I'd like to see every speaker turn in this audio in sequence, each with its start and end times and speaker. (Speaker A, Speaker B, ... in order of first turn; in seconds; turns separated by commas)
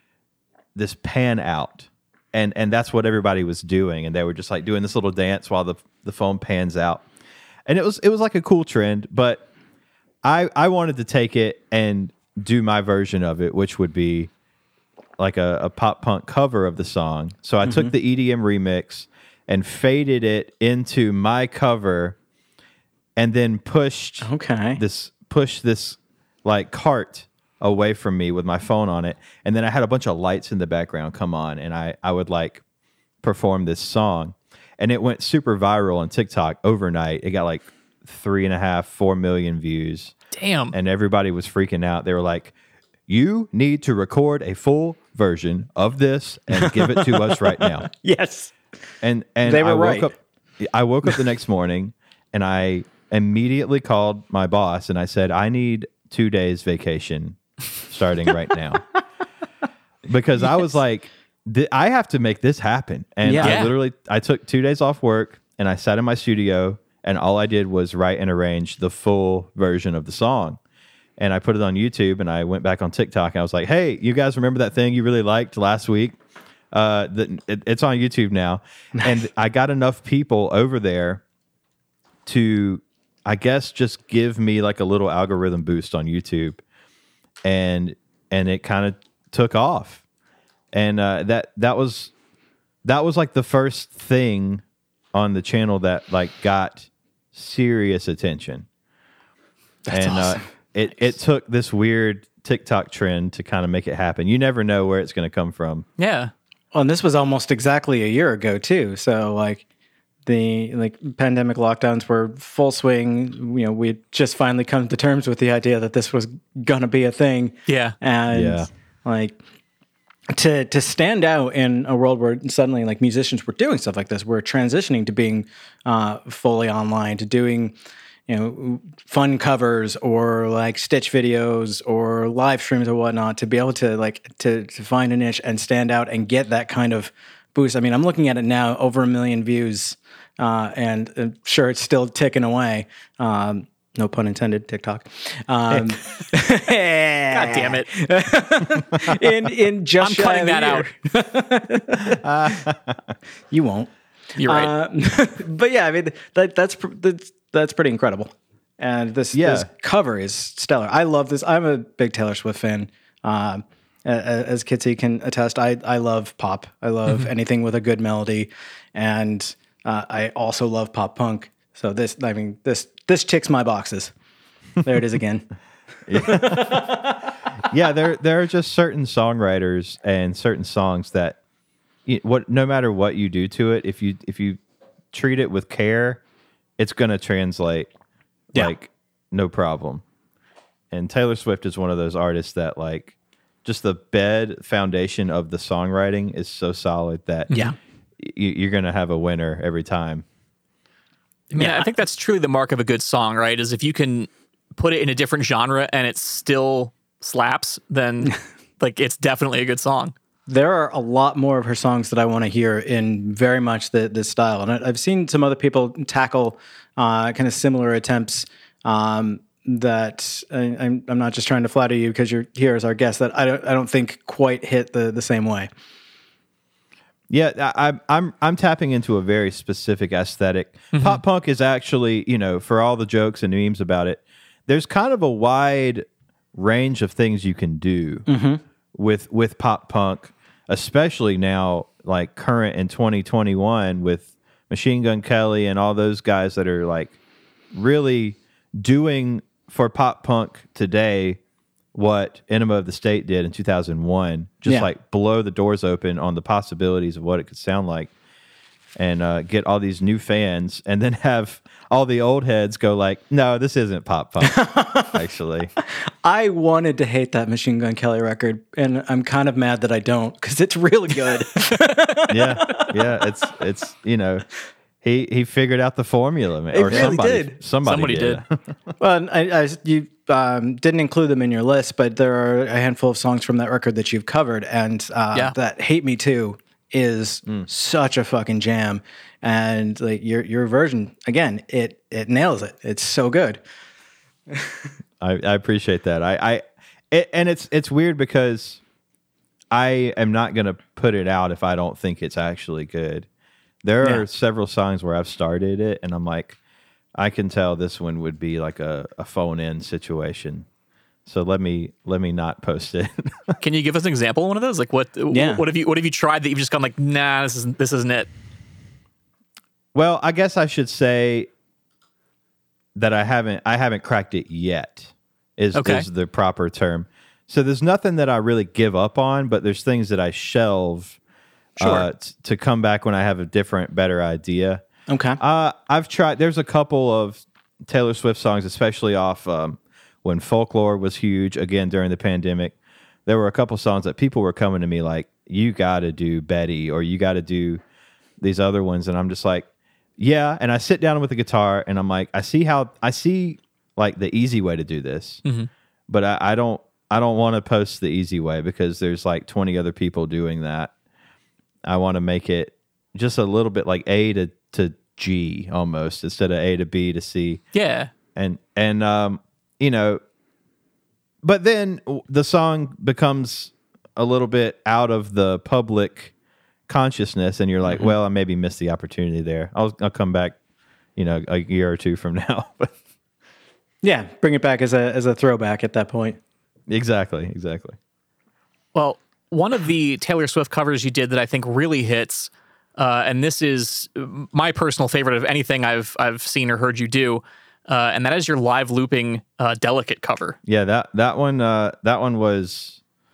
Speaker A: 0.7-7.0, Speaker A: 7.7-9.4, Speaker A: 10.2-14.3, Speaker A: 15.2-22.2, Speaker B: 17.6-17.9, Speaker A: 23.1-32.6, Speaker B: 24.2-24.8, Speaker A: 33.2-40.1, Speaker C: 40.3-40.7, Speaker A: 40.7-42.5, Speaker A: 43.1-47.9, Speaker B: 46.5-48.5, Speaker A: 49.0-58.8, Speaker B: 49.4-50.1, Speaker A: 60.1-70.6, Speaker B: 63.2-63.6, Speaker C: 63.4-63.7, Speaker A: 71.2-76.2, Speaker A: 76.7-81.2, Speaker A: 82.2-86.6, Speaker A: 87.4-90.0, Speaker A: 90.7-92.1, Speaker A: 92.8-94.6, Speaker A: 95.1-98.7, Speaker B: 99.9-100.4, Speaker A: 99.9-105.8, Speaker C: 106.0-106.3, Speaker B: 106.7-109.6, Speaker B: 110.2-119.4, Speaker C: 117.7-117.9, Speaker A: 118.3-118.7, Speaker B: 120.3-127.7, Speaker B: 128.3-152.6, Speaker C: 147.3-147.9, Speaker C: 150.0-150.9, Speaker A: 152.2-152.9, Speaker B: 153.5-153.9, Speaker C: 154.4-154.7, Speaker B: 154.4-174.1, Speaker A: 159.3-159.7, Speaker B: 174.8-175.5, Speaker A: 176.1-177.0, Speaker B: 176.1-177.3, Speaker A: 177.7-181.4, Speaker A: 182.1-184.6, Speaker A: 185.1-186.2, Speaker A: 186.8-187.9, Speaker A: 188.5-190.0, Speaker A: 190.9-193.1, Speaker A: 193.6-197.5, Speaker A: 198.2-200.2, Speaker C: 201.5-210.1, Speaker B: 201.6-201.9, Speaker B: 210.5-225.7, Speaker A: 227.3-238.3, Speaker C: 230.9-231.2, Speaker B: 238.3-238.6, Speaker A: 238.9-247.1, Speaker A: 247.7-251.4, Speaker A: 251.9-258.1, Speaker A: 259.0-265.7, Speaker B: 264.4-265.1, Speaker B: 266.2-272.9, Speaker A: 272.3-274.4, Speaker A: 275.0-278.5, Speaker B: 276.7-277.6, Speaker C: 276.9-277.2, Speaker C: 277.8-278.4, Speaker B: 279.0-293.6, Speaker A: 295.2-298.8, Speaker A: 299.7-303.3, Speaker A: 303.8-306.6, Speaker A: 307.1-310.7, Speaker A: 311.2-313.6, Speaker C: 313.6-318.3, Speaker B: 315.3-315.6, Speaker A: 319.9-321.5, Speaker A: 322.9-331.2, Speaker C: 325.7-326.1, Speaker C: 331.8-332.1, Speaker A: 331.8-334.8, Speaker B: 335.1-335.4, Speaker A: 335.4-342.7, Speaker A: 343.2-347.8, Speaker A: 348.4-349.6, Speaker A: 350.2-355.4, Speaker C: 355.4-355.7, Speaker A: 356.1-360.9, Speaker A: 361.8-367.6, Speaker C: 367.7-368.1, Speaker A: 368.3-370.2, Speaker A: 371.4-376.3, Speaker A: 376.9-380.6, Speaker A: 381.1-382.9, Speaker B: 384.0-386.4, Speaker A: 386.9-388.0, Speaker C: 388.9-400.6, Speaker A: 400.6-403.0